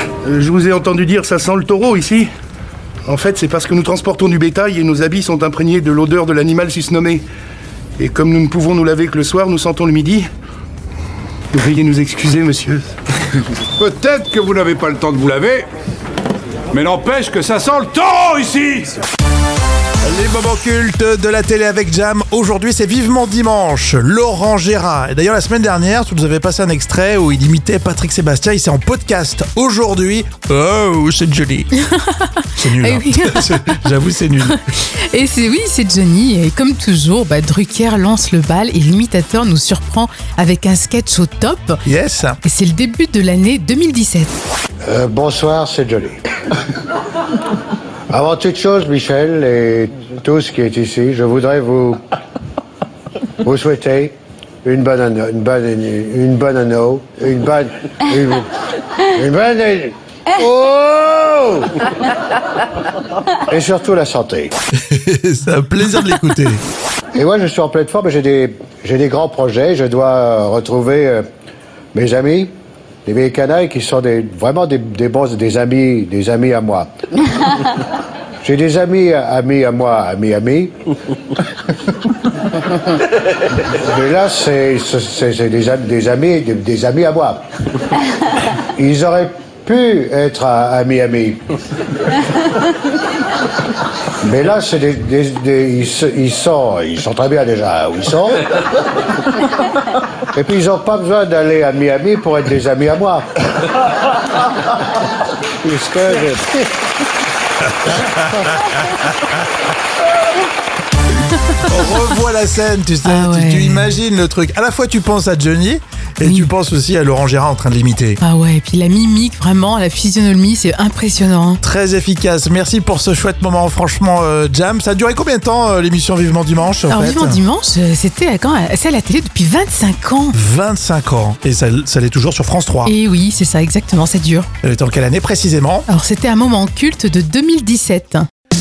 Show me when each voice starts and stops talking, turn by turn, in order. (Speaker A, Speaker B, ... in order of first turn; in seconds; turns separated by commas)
Speaker A: 0.2-2.3, Speaker A: 3.0-7.2, Speaker A: 8.0-10.3, Speaker A: 11.5-12.9, Speaker A: 13.8-15.7, Speaker B: 14.4-15.6, Speaker A: 16.7-17.1, Speaker B: 16.7-18.0, Speaker A: 17.9-19.0, Speaker C: 20.0-31.7, Speaker D: 31.7-41.8, Speaker C: 32.6-34.6, Speaker C: 41.8-42.4, Speaker D: 42.4-44.4, Speaker E: 44.8-46.2, Speaker E: 48.1-52.0, Speaker E: 53.4-58.5, Speaker E: 59.0-61.9, Speaker E: 63.5-64.5, Speaker C: 64.9-66.6, Speaker E: 67.1-71.2, Speaker E: 71.9-72.5, Speaker E: 73.0-76.9, Speaker E: 78.4-80.7, Speaker E: 83.6-87.5, Speaker E: 88.7-91.4, Speaker E: 94.2-98.6, Speaker E: 100.3-103.4, Speaker E: 105.6-106.7, Speaker E: 108.1-108.5, Speaker D: 111.5-112.1, Speaker C: 111.6-118.2, Speaker D: 113.0-113.9, Speaker D: 116.2-116.5, Speaker D: 118.2-121.6, Speaker C: 121.6-127.4, Speaker D: 126.8-130.3, Speaker C: 130.3-132.9, Speaker D: 132.8-134.5, Speaker C: 134.6-135.8, Speaker D: 135.9-138.3